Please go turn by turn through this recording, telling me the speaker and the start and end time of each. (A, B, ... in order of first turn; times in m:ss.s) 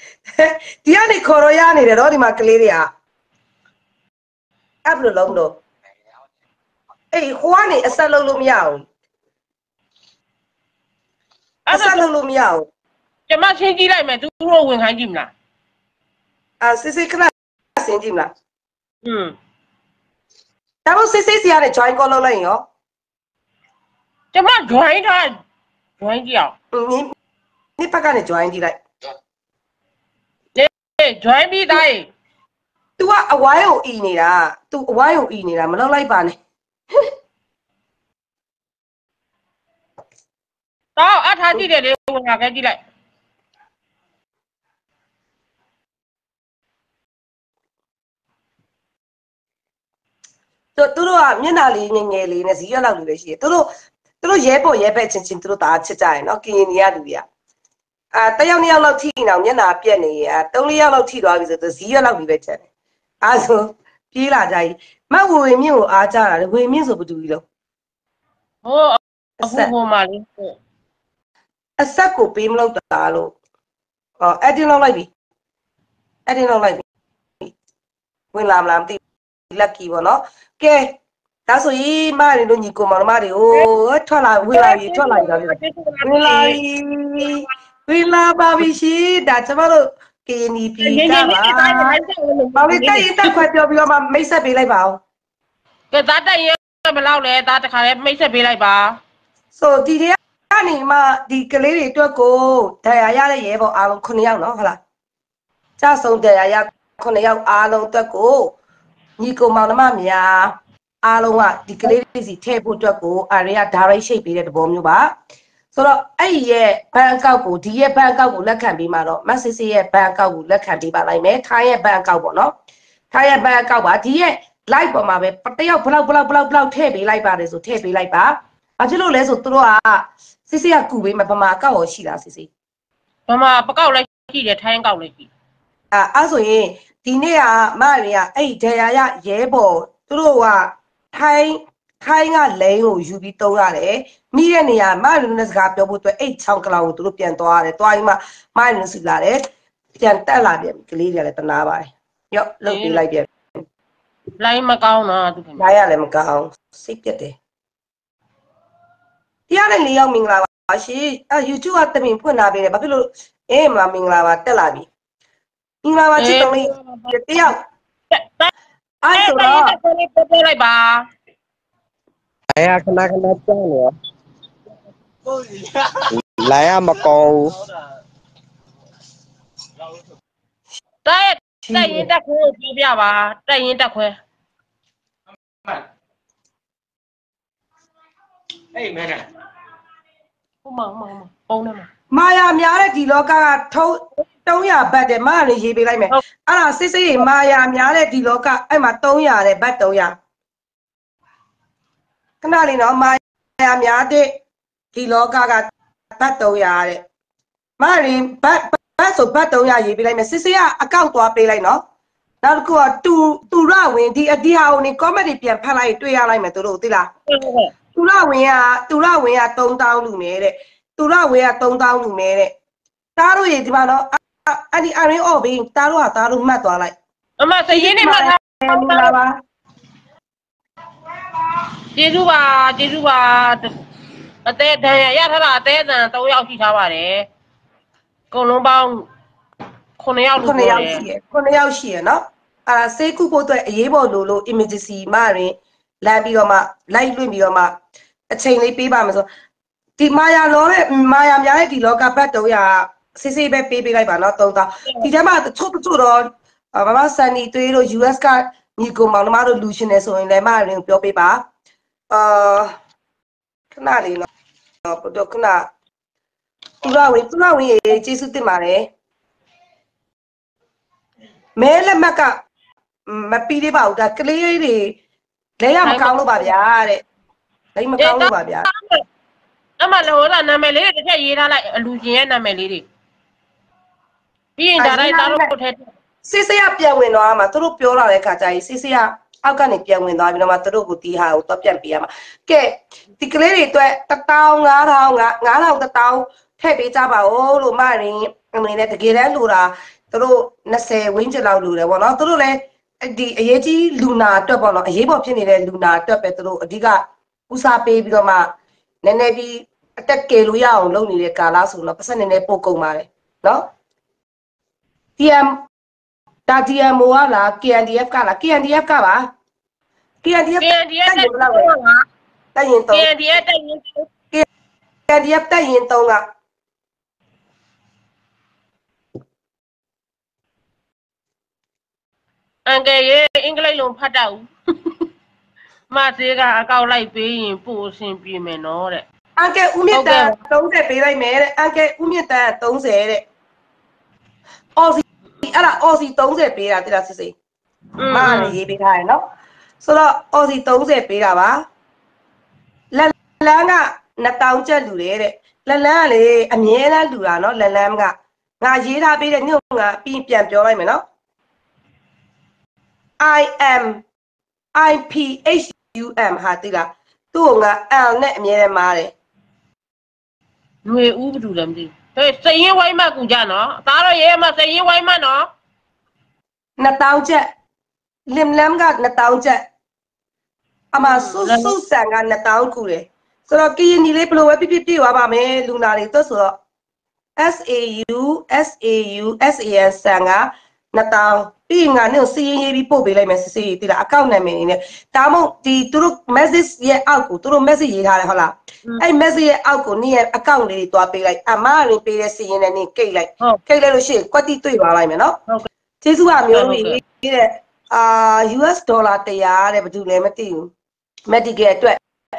0:00.4-0:02.9 A
0:04.9-0:05.6 A
0:07.1-0:08.9 A
0:11.7-0:12.0 B
0:11.7-0:12.7 A
0:13.3-0:15.3 B
0:16.6-0:18.3 A
0:19.0-0:19.4 B
0:20.9-0:22.7 A
0:24.3-0:25.4 B
0:26.0-0:26.5 B
0:26.7-0:27.1 A
0:27.8-0:28.8 A
0:30.6-0:32.1 B
0:33.0-0:36.4 A
0:41.0-0:42.8 B
0:50.8-0:53.7 A
0:54.2-0:57.2 A
0:58.2-1:02.6 A
1:03.2-1:07.4 A
1:08.6-1:10.6 B
1:09.4-1:09.7 A
1:11.8-1:13.3 A
1:14.2-1:15.1 A
1:16.3-1:16.8 A
1:18.3-1:19.0 A
1:19.5-1:21.0 A
1:21.5-1:32.0 A
1:24.5-1:26.6 B
1:27.2-1:27.5 B
1:30.8-1:33.4 B
1:32.6-1:35.0 A
1:35.9-1:39.0 B
1:39.6-1:44.8 A
1:45.8-1:48.5 A
1:49.2-1:55.1 A
1:55.8-2:02.5 A
2:03.1-2:12.5 A
2:13.3-2:15.3 B
2:15.9-2:29.5 A
2:30.0-2:33.6 A
2:32.7-2:33.0 B
2:34.4-2:35.6 B
2:35.6-2:37.4 A
2:39.5-2:44.9 A
2:45.8-2:47.6 A
2:46.2-2:47.2 B
2:48.1-2:48.5 B
2:49.0-2:49.7 A
2:49.2-2:51.0 B
2:52.5-2:54.0 C
2:56.1-2:57.6 C
3:01.0-3:04.2 B
3:01.7-3:02.1 A
3:10.6-3:11.9 B
3:12.1-3:20.2 A
3:22.4-3:24.4 A
3:24.9-3:27.0 A
3:27.8-3:31.8 A
3:32.4-3:37.1 A
3:37.3-3:37.7 B
3:38.0-3:42.5 A
3:43.2-3:46.9 A
3:47.4-3:49.2 B
3:47.7-3:49.4 A
3:52.0-3:53.7 B
3:54.4-3:57.3 B
3:58.3-3:59.1 B
4:00.0-4:01.0 B
4:00.4-4:07.8 A
4:08.3-4:09.3 A
4:10.0-4:21.4 A
4:22.1-4:22.7 A
4:23.8-4:24.3 A
4:24.8-4:25.7 A
4:26.8-4:28.9 A
4:31.6-4:32.4 A
4:33.1-4:35.0 A
4:35.6-4:37.0 A
4:35.8-4:36.5 B
4:37.8-4:38.7 A
4:38.0-4:39.0 B
4:39.8-4:42.8 B
4:44.6-4:45.9 B
4:44.8-4:45.5 A
4:46.2-5:08.5 A
5:09.0-5:13.7 A
5:15.2-5:15.6 A
5:16.5-5:19.3 A
5:20.2-5:21.7 A
5:20.6-5:22.0 B
5:22.6-5:23.1 A
5:22.9-5:24.1 B
5:25.1-5:26.2 A
5:32.7-5:34.9 B
5:35.9-5:39.0 B
5:39.4-5:43.2 A
5:39.9-5:40.4 B
5:44.8-5:47.4 A
5:48.0-5:48.6 B
5:48.1-5:49.2 A
5:49.8-5:51.6 A
5:52.9-6:01.0 A
6:03.2-6:04.0 A
6:04.8-6:09.1 A
6:10.8-6:15.5 B
6:16.8-6:17.5 A
6:18.3-6:19.6 A
6:20.9-6:26.5 A
6:21.0-6:21.8 B
6:27.4-6:45.4 A
6:46.0-6:50.7 A
6:46.5-6:47.0 B
6:51.3-6:52.0 A